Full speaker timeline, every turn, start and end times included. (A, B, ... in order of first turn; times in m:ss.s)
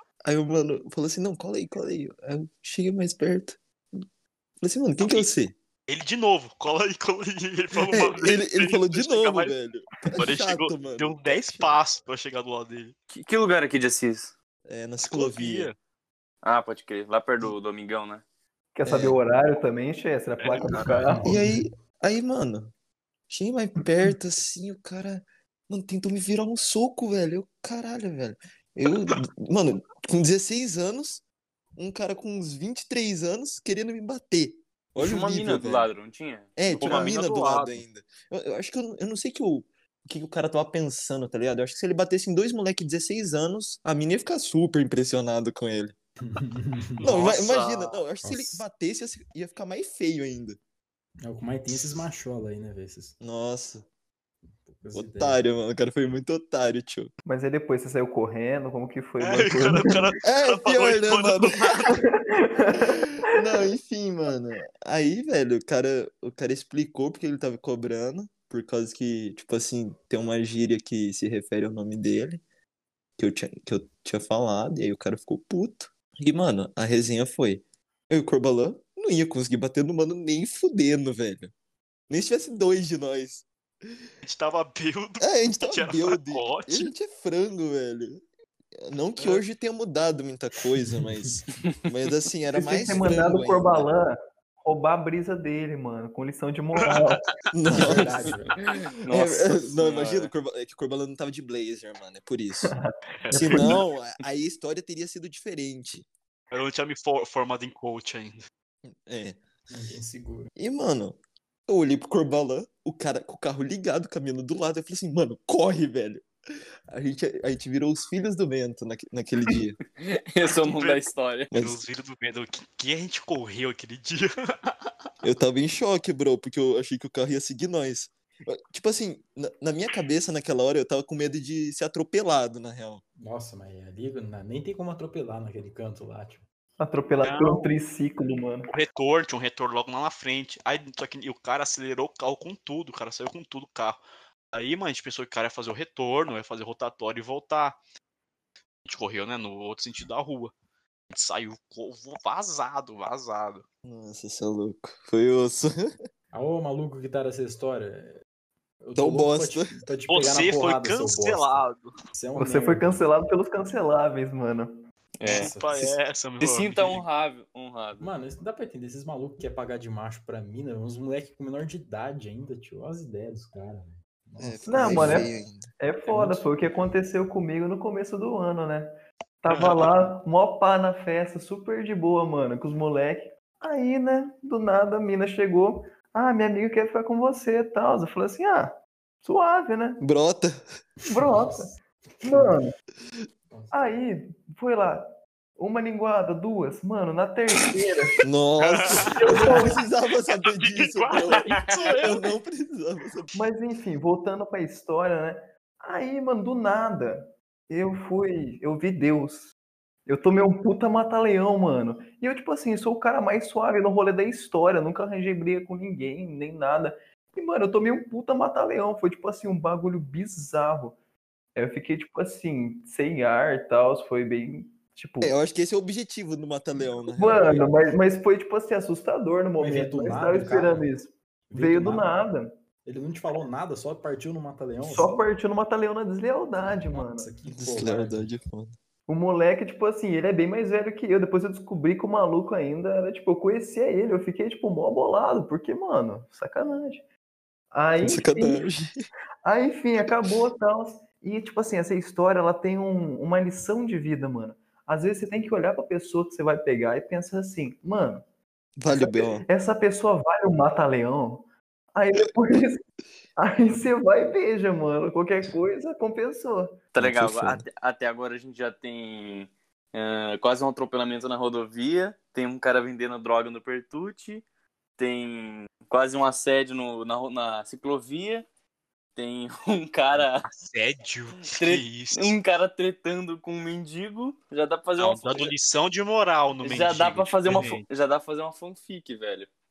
0:00.2-0:03.6 A
0:04.6-0:05.6 A
0:05.0-0:05.3 B
0:05.9-0:09.5 B
0:07.8-0:11.8 A
0:10.1-0:13.0 B
0:13.1-0:14.3 C
0:14.7-0:15.7 A
0:15.0-0:15.8 B
0:16.4-0:18.2 C
0:18.8-0:21.3 D
0:18.8-0:19.2 A
0:20.4-0:21.0 B
0:20.7-0:21.6 E
0:21.2-0:22.7 A
0:23.3-0:31.2 A
0:31.8-0:35.9 A
0:35.0-0:37.2 C
0:36.6-0:46.0 A
0:36.7-0:37.8 B
0:46.2-0:47.1 E
0:47.0-0:48.0 B
0:47.0-0:50.6 A
0:48.2-0:48.6 E
0:51.2-0:53.2 E
0:53.2-0:53.9 A
0:54.6-0:55.4 E
0:54.9-0:57.1 A
0:57.3-0:59.9 D
0:59.2-1:02.0 B
1:00.2-1:01.7 A
1:02.3-1:03.0 D
1:02.8-1:12.4 A
1:13.2-1:21.5 A
1:22.1-1:23.4 A
1:24.2-1:26.9 B
1:25.2-1:28.2 A
1:28.8-1:33.9 A
1:29.2-1:29.4 B
1:32.5-1:37.3 D
1:37.5-1:38.2 A
1:37.7-1:38.6 E
1:38.5-1:40.3 C
1:39.1-1:42.7 A
1:42.7-1:43.8 D
1:43.3-1:46.1 A
1:46.5-1:48.4 B
1:48.9-1:49.4 A
1:49.7-1:50.5 E
1:50.6-1:56.3 A
1:56.9-1:59.8 A
2:00.0-2:01.5 C
2:00.5-2:04.7 B
2:01.5-2:01.8 A
2:05.2-2:13.0 A
2:13.2-2:16.4 E
2:16.8-2:18.7 D
2:17.2-2:17.7 B
2:18.7-2:24.0 B
2:24.5-2:27.8 B
2:28.8-2:30.5 B
2:31.1-2:33.6 B
2:33.8-2:36.0 A
2:36.3-2:38.2 E
2:38.8-2:43.0 E
2:39.0-2:39.8 A
2:40.1-2:41.9 B
2:42.4-2:44.8 D
2:45.2-2:45.5 C
2:45.2-2:46.0 E
2:45.3-2:47.0 B
2:46.4-2:48.1 C
2:48.0-2:55.3 E
2:54.4-2:55.7 A
2:54.7-3:10.0 D
2:56.1-2:56.4 E
3:10.0-3:10.6 A
3:11.1-3:12.7 D
3:11.2-3:12.6 E
3:13.5-3:14.0 E
3:13.7-3:15.0 D
3:15.6-3:18.2 D
3:18.2-3:21.5 A
3:18.6-3:19.6 B
3:19.1-3:19.8 D
3:20.3-3:22.3 B
3:21.3-3:22.0 C
3:22.0-3:23.4 A
3:23.3-3:29.5 D
3:30.1-3:41.0 D
3:41.6-3:45.3 D
3:45.2-3:47.8 A
3:47.2-3:52.5 D
3:49.6-3:50.9 E
3:51.5-3:52.1 E
3:52.8-3:55.2 E
3:54.8-3:57.3 D
3:56.7-3:58.3 E
3:57.5-3:58.8 A
3:59.1-4:07.0 D
4:07.7-4:08.7 D
4:08.0-4:09.0 A
4:09.4-4:18.2 D
4:18.8-4:19.4 A
4:18.9-4:22.8 D
4:23.4-4:26.8 D
4:26.9-4:34.4 C
4:27.0-4:27.6 A
4:35.0-4:38.5 C
4:39.2-4:40.5 C
4:40.5-4:42.4 B
4:41.5-4:45.5 C
4:45.0-4:47.8 B
4:46.6-4:49.5 C